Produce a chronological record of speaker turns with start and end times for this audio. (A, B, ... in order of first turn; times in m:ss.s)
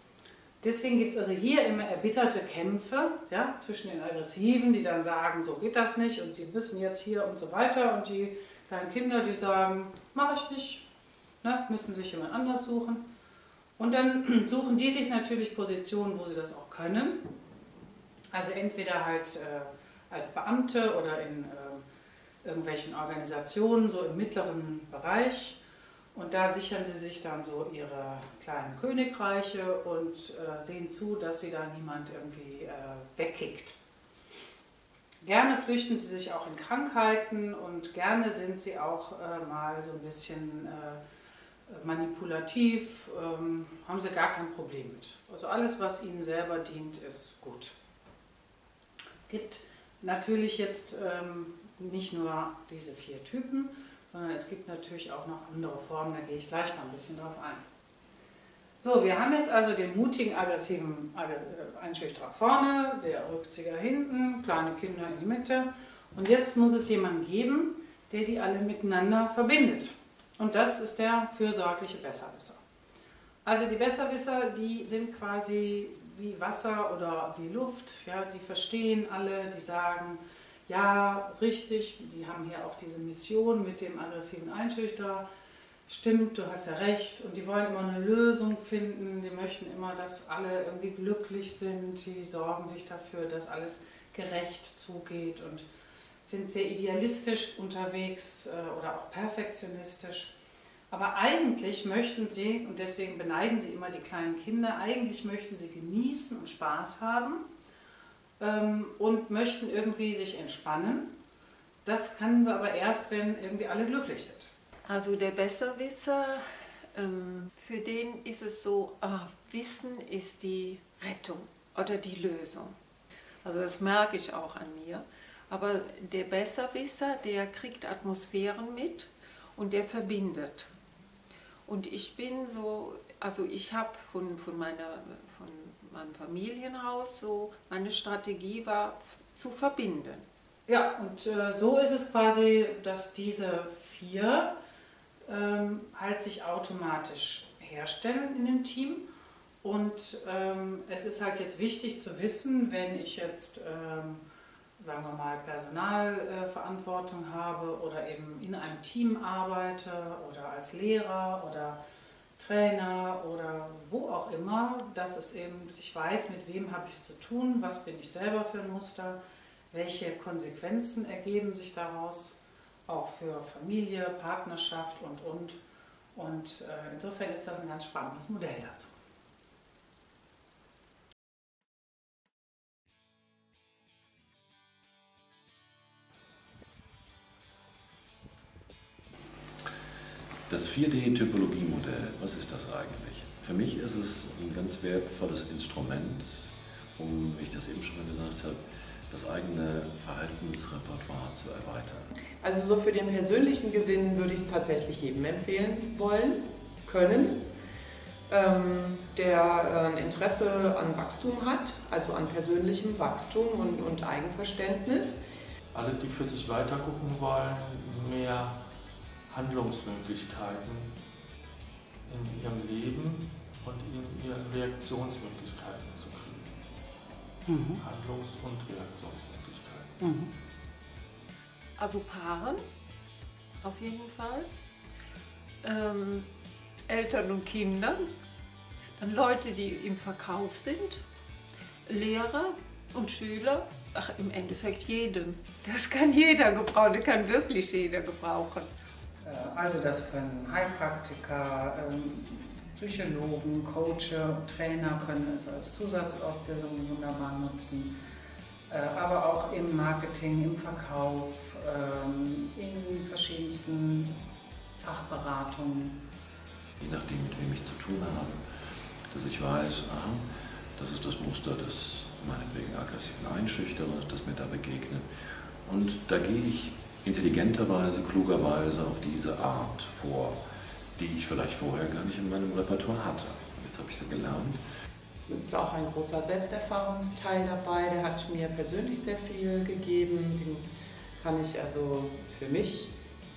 0:00.6-0:10.9 A
0:11.4-0:13.0 A
0:13.8-0:17.3 A
0:18.3-0:21.8 A
0:22.4-0:25.6 A
0:26.1-0:33.8 A
0:35.2-0:41.0 A
0:41.7-0:47.8 A
0:49.3-0:57.6 A
0:58.8-1:12.6 A
1:13.4-1:25.3 A
1:25.9-1:35.7 A
1:36.2-1:40.3 A
1:40.9-1:47.4 A
1:48.4-1:51.1 A
1:51.8-1:54.5 A
1:54.9-1:56.4 B
1:57.0-2:02.8 B
2:03.4-2:10.7 B
2:11.7-2:20.2 B
2:20.7-2:24.6 A
2:25.3-2:29.1 A
2:29.6-2:34.2 A
2:34.8-2:41.8 A
2:42.4-2:49.2 A
2:49.7-2:55.6 A
2:56.2-2:58.9 A
3:10.5-3:22.1 C
3:22.4-3:27.5 D
3:28.3-3:35.2 D
3:35.7-3:38.6 E
3:39.3-3:40.9 E
3:42.1-3:46.5 E
3:47.5-3:47.8 A
3:47.8-3:50.0 E
3:50.0-3:50.3 A
3:51.8-3:52.6 B
3:53.6-3:54.5 B
3:55.6-3:56.3 B
3:56.9-3:58.1 B
3:59.0-4:01.0 B
4:01.9-4:08.7 B
4:09.2-4:18.0 A
4:18.7-4:24.2 A
4:24.8-4:26.0 A
4:26.8-4:28.4 C
4:29.1-4:30.2 C
4:30.8-4:35.1 C
4:35.6-4:40.4 C
4:41.0-4:44.6 C
4:45.3-4:50.7 D
4:51.2-4:52.9 D